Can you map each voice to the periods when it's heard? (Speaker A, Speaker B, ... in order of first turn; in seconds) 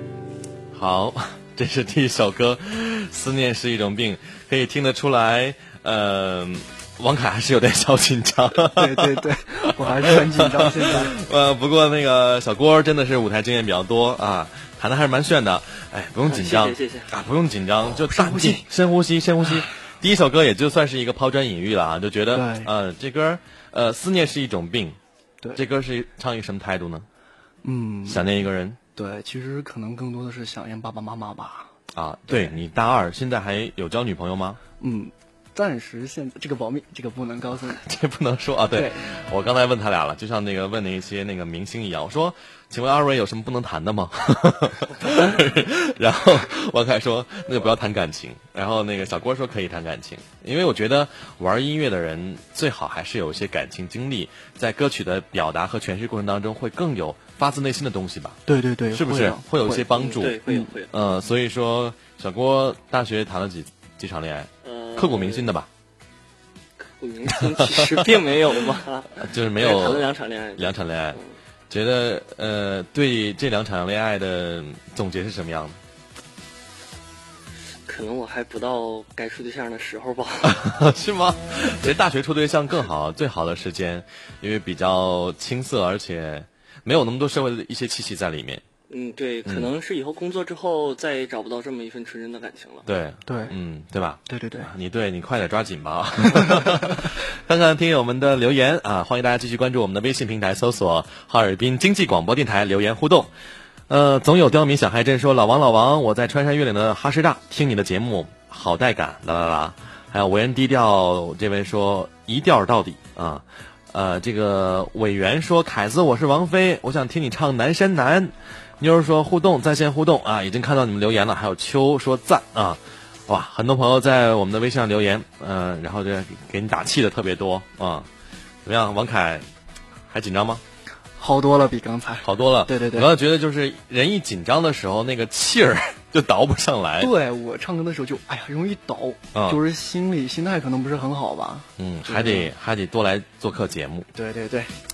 Speaker A: 0.7-25.0, 25.6-27.1, 28.1-28.8, 31.9-34.6, 37.7-58.4, 58.9-65.7, 67.3-68.1, 69.2-71.2, 71.7-75.8, 80.4-88.6, 89.4-89.7, 92.8-103.3, 103.9-128.1, 128.6-129.4, 130.1-130.6, 132.2-137.1, 139.3-139.6, 141.8-144.1
Speaker B: 8.5-11.1, 17.9-18.7, 22.3-22.7, 27.6-28.3, 28.9-31.7, 32.3-32.5, 34.8-37.8, 38.7-39.0, 58.5-60.7, 93.2-93.5, 94.3-94.7, 131.2-133.1, 137.0-142.5, 144.1-144.7
Speaker C: 16.2-17.1, 59.9-60.9, 64.6-65.5, 66.8-71.2, 77.9-80.6, 88.9-92.9